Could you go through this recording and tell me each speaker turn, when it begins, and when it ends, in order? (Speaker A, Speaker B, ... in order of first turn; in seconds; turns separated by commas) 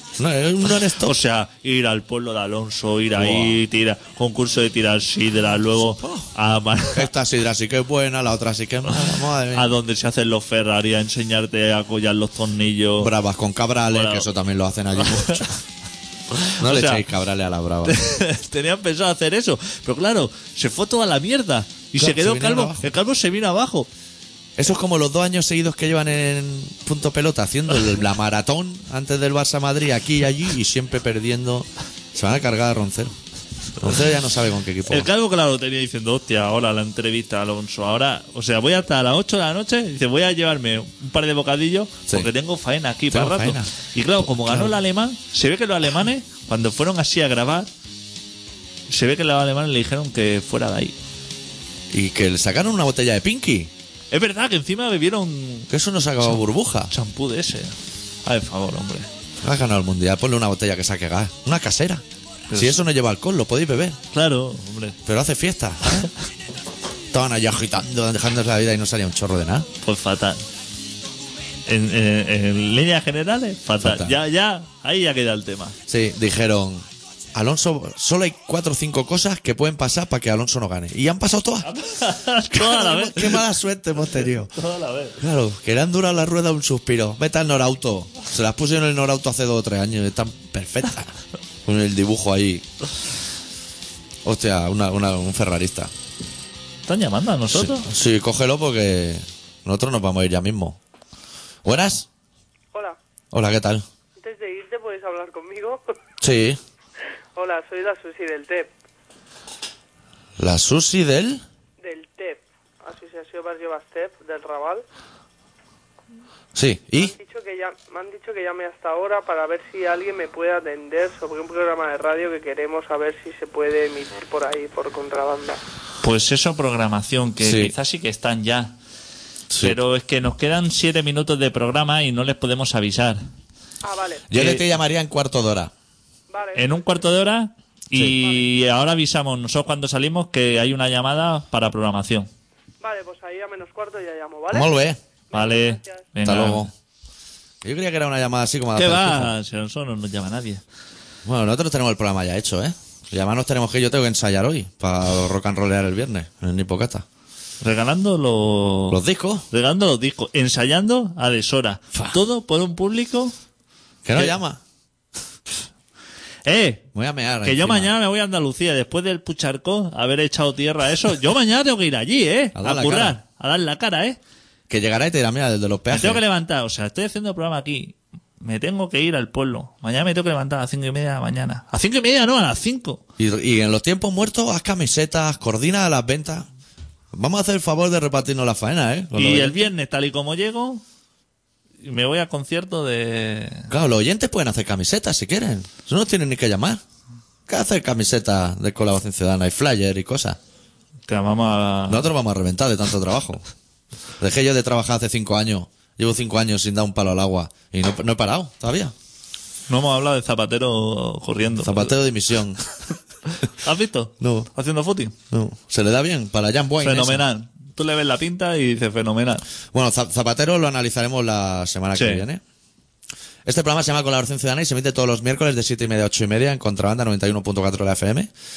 Speaker A: 0.2-1.2, Speaker B: 0.9-7.1, Speaker A: 3.1-3.6, Speaker A: 5.7-6.3, Speaker A: 6.9-9.7, Speaker B: 9.0-13.1, Speaker A: 13.0-15.5, Speaker B: 13.9-14.2, Speaker B: 15.2-15.4, Speaker B: 16.3-17.0, Speaker A: 16.6-18.0, Speaker B: 17.9-23.9, Speaker A: 22.0-22.9, Speaker A: 24.6-33.1, Speaker A: 33.8-35.1, Speaker B: 34.9-47.7, Speaker A: 43.1-44.7, Speaker B: 48.9-50.9, Speaker A: 51.9-53.7, Speaker B: 54.1-55.7, Speaker A: 55.7-56.9, Speaker B: 56.2-59.1, Speaker A: 59.4-62.0, Speaker B: 62.5-62.8, Speaker A: 62.5-64.0, Speaker B: 64.1-65.0, Speaker A: 65.0-66.1, Speaker A: 67.1-69.7, Speaker B: 69.8-70.4, Speaker B: 71.7-75.8, Speaker A: 73.8-74.2, Speaker A: 75.9-81.7, Speaker B: 81.6-83.4, Speaker A: 82.5-84.5, Speaker B: 84.5-85.2, Speaker A: 85.2-91.1, Speaker A: 91.6-92.7, Speaker A: 94.2-95.9, Speaker B: 96.8-97.8, Speaker A: 97.5-100.8, Speaker A: 101.6-102.1, Speaker A: 103.3-103.8, Speaker C: 104.2-105.8, Speaker A: 106.2-106.6, Speaker C: 107.3-108.7, Speaker A: 110.4-111.4, Speaker C: 111.8-114.8, Speaker A: 116.5-117.1, Speaker C: 117.0-125.6, Speaker B: 126.0-128.8, Speaker A: 127.4-127.7, Speaker A: 129.5-129.8, Speaker B: 129.6-133.2, Speaker C: 133.8-134.3, Speaker A: 134.3-135.7, Speaker B: 134.4-134.6, Speaker C: 136.3-136.9, Speaker B: 136.5-142.3, Speaker C: 138.2-138.4, Speaker C: 142.8-144.7, Speaker A: 144.5-145.0, Speaker C: 145.3-146.1, Speaker B: 145.3-146.7, Speaker A: 146.2-146.7, Speaker A: 147.6-149.3, Speaker B: 148.8-150.6, Speaker A: 151.2-157.0, Speaker B: 157.6-163.3, Speaker A: 158.9-159.4, Speaker A: 164.0-164.6, Speaker B: 166.4-166.8, Speaker A: 166.9-167.9, Speaker B: 167.4-174.2, Speaker A: 172.5-173.2, Speaker A: 174.7-176.2, Speaker B: 175.9-183.0, Speaker A: 183.2-186.5, Speaker A: 187.1-189.7, Speaker B: 189.1-190.8, Speaker B: 191.8-193.7, Speaker A: 193.7-196.8, Speaker A: 197.5-200.4, Speaker B: 201.1-202.1, Speaker A: 201.9-203.4, Speaker A: 204.2-208.9, Speaker B: 209.7-211.9, Speaker A: 211.6-212.6, Speaker B: 213.3-215.1, Speaker A: 214.2-214.5, Speaker A: 215.3-217.2, Speaker B: 216.8-219.4, Speaker A: 219.7-222.4, Speaker B: 221.9-222.2, Speaker A: 223.4-228.3